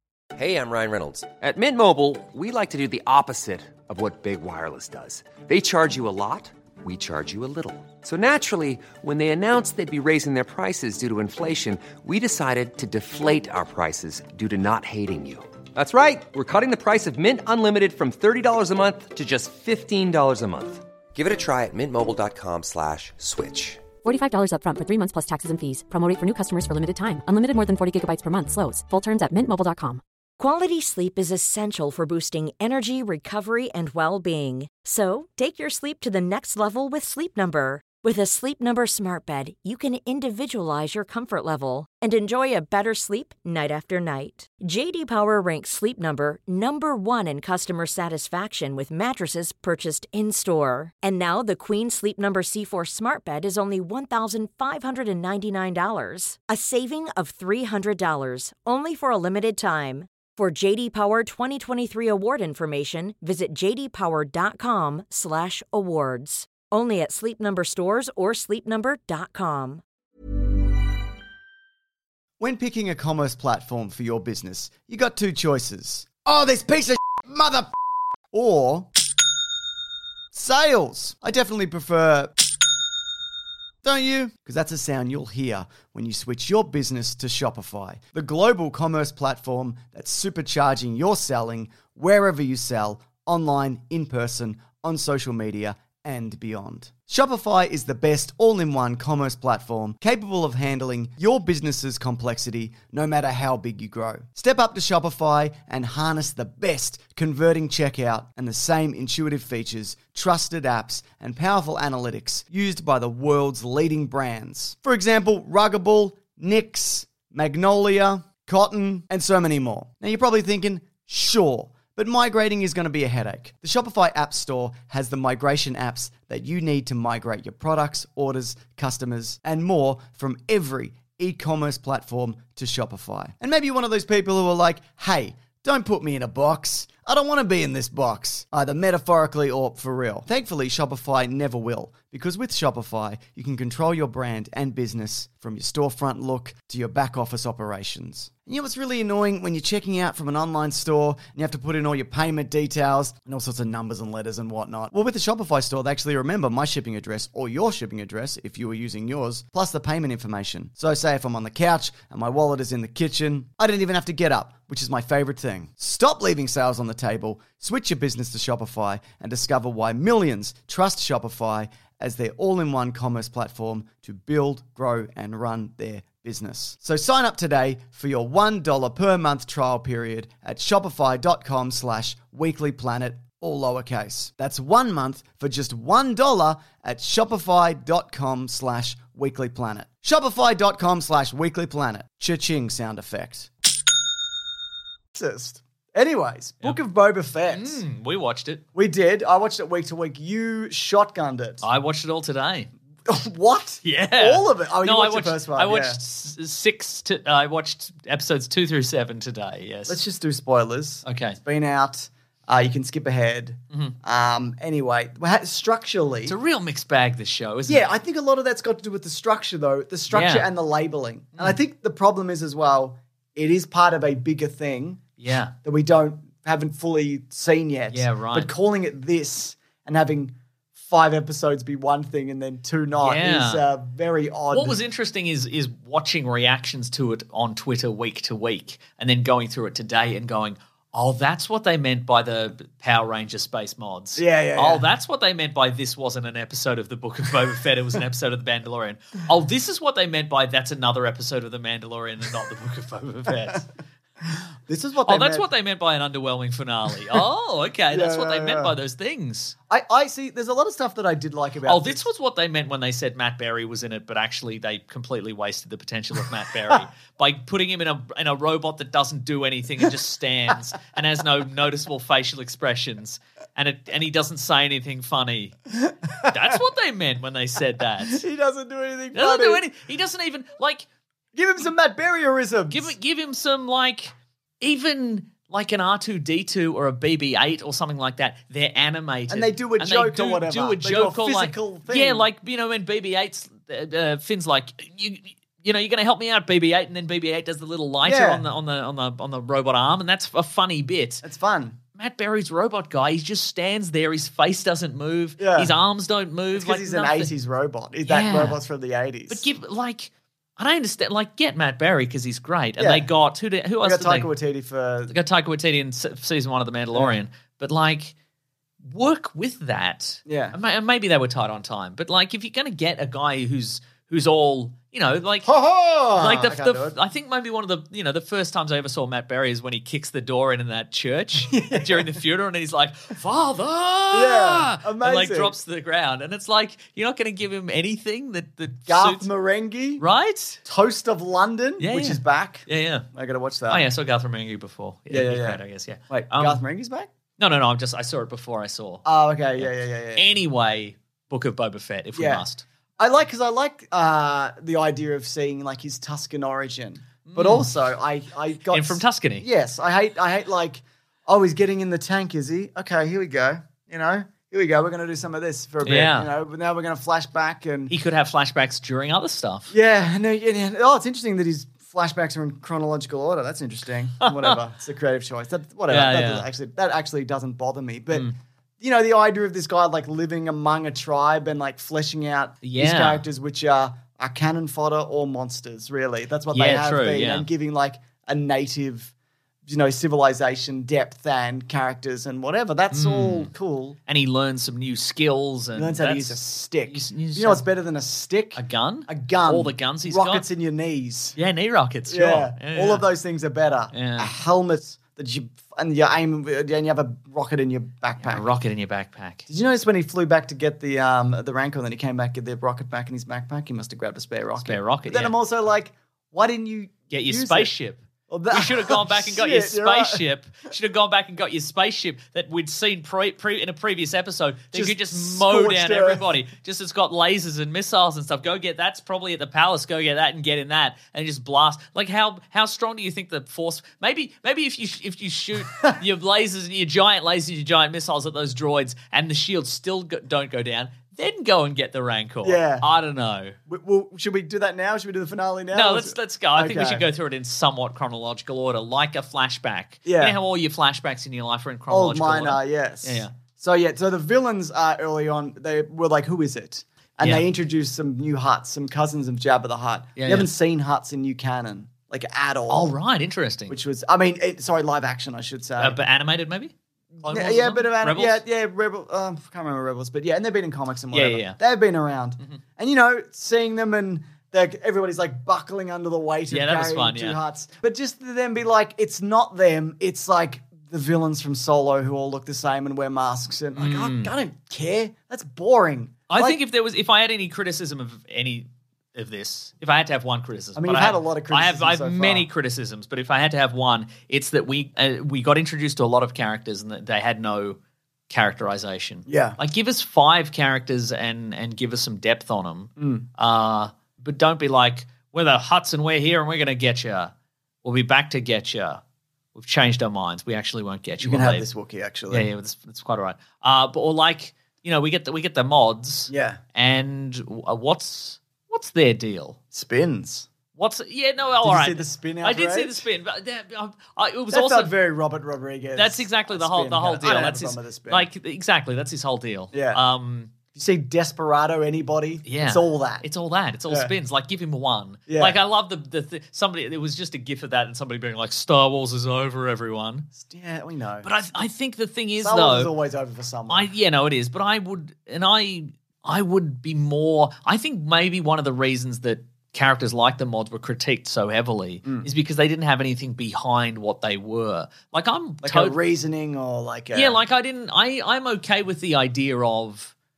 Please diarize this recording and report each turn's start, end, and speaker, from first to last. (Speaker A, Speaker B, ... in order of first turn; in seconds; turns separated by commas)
Speaker A: 0.3-23.8, Speaker B: 24.0-30.0, Speaker C: 30.4-69.8, Speaker D: 72.4-77.7, Speaker D: 78.3-78.9, Speaker D: 80.3-82.3, Speaker D: 83.8-193.5, Speaker D: 195.1-197.8, Speaker E: 197.5-198.6, Speaker D: 198.8-201.7, Speaker E: 201.6-202.7, Speaker D: 203.1-206.0, Speaker E: 203.8-210.0, Speaker D: 209.9-216.4, Speaker E: 211.1-211.4, Speaker E: 216.3-217.9, Speaker D: 217.7-225.1, Speaker E: 220.1-220.5, Speaker E: 225.2-225.5, Speaker D: 225.6-234.8, Speaker E: 227.9-228.5, Speaker E: 233.0-233.7, Speaker E: 234.5-253.7, Speaker D: 244.2-244.9, Speaker D: 254.7-255.5, Speaker E: 255.1-259.6, Speaker D: 257.9-258.8, Speaker D: 259.7-262.1, Speaker E: 261.7-275.6, Speaker D: 276.1-276.4, Speaker E: 276.2-278.2, Speaker D: 278.1-279.6, Speaker E: 279.1-280.9, Speaker D: 281.4-282.9, Speaker E: 282.7-301.2, Speaker D: 289.3-292.3, Speaker D: 298.0-298.4, Speaker D: 301.2-301.8, Speaker E: 302.0-307.3, Speaker D: 305.4-305.7, Speaker D: 306.5-309.5, Speaker E: 308.1-308.6, Speaker E: 309.3-314.3, Speaker D: 312.8-313.1, Speaker D: 313.8-315.1, Speaker E: 315.1-318.1, Speaker E: 318.8-325.5, Speaker D: 320.3-320.6, Speaker D: 325.4-326.9, Speaker E: 326.1-339.3, Speaker D: 331.5-332.2, Speaker D: 334.1-335.6, Speaker D: 338.9-340.0, Speaker E: 340.0-340.6, Speaker D: 340.6-343.9, Speaker E: 341.8-343.1, Speaker E: 343.7-346.6, Speaker D: 345.1-347.1, Speaker E: 347.4-349.1, Speaker D: 349.1-350.3, Speaker E: 349.6-352.6, Speaker D: 352.1-352.5, Speaker D: 353.0-367.9, Speaker E: 357.3-357.7, Speaker E: 358.7-359.5, Speaker E: 365.8-366.3, Speaker E: 367.9-369.7, Speaker D: 369.7-378.3, Speaker E: 374.2-374.6, Speaker E: 375.9-376.5, Speaker D: 378.8-389.1, Speaker E: 382.6-383.2, Speaker E: 386.5-387.5, Speaker D: 389.7-394.0, Speaker E: 392.9-393.5, Speaker E: 394.1-397.6, Speaker D: 395.8-401.4, Speaker E: 398.6-400.5, Speaker E: 401.4-403.1, Speaker D: 402.1-408.5, Speaker E: 403.9-404.3, Speaker E: 408.2-409.5, Speaker D: 409.5-417.7, Speaker E: 414.6-415.3, Speaker E: 417.1-443.6, Speaker D: 418.3-420.2, Speaker D: 424.7-426.3, Speaker D: 442.4-442.9, Speaker D: 443.7-447.1, Speaker E: 445.7-453.3, Speaker D: 450.1-450.4, Speaker D: 451.9-462.9, Speaker E: 460.2-460.5, Speaker E: 462.7-463.8, Speaker D: 463.7-466.0, Speaker E: 465.8-468.4, Speaker D: 467.3-486.6, Speaker E: 471.1-471.6, Speaker E: 476.5-477.4, Speaker E: 483.8-484.3, Speaker E: 486.3-497.8, Speaker D: 490.8-492.5, Speaker E: 498.3-507.3, Speaker D: 499.3-499.6, Speaker D: 503.0-503.3, Speaker E: 507.8-509.0, Speaker E: 509.6-511.7, Speaker D: 511.2-512.5, Speaker E: 512.3-519.6, Speaker D: 516.3-516.6, Speaker D: 519.7-520.5, Speaker E: 520.8-524.9, Speaker D: 521.6-523.0, Speaker D: 524.5-528.3, Speaker E: 526.0-530.5, Speaker D: 529.7-530.0, Speaker D: 530.7-533.2, Speaker E: 532.5-540.3, Speaker D: 533.9-534.1, Speaker D: 535.3-535.6, Speaker D: 540.4-541.3, Speaker E: 541.2-542.9, Speaker D: 542.4-543.9, Speaker E: 543.7-556.0, Speaker D: 555.6-557.4, Speaker E: 557.1-560.1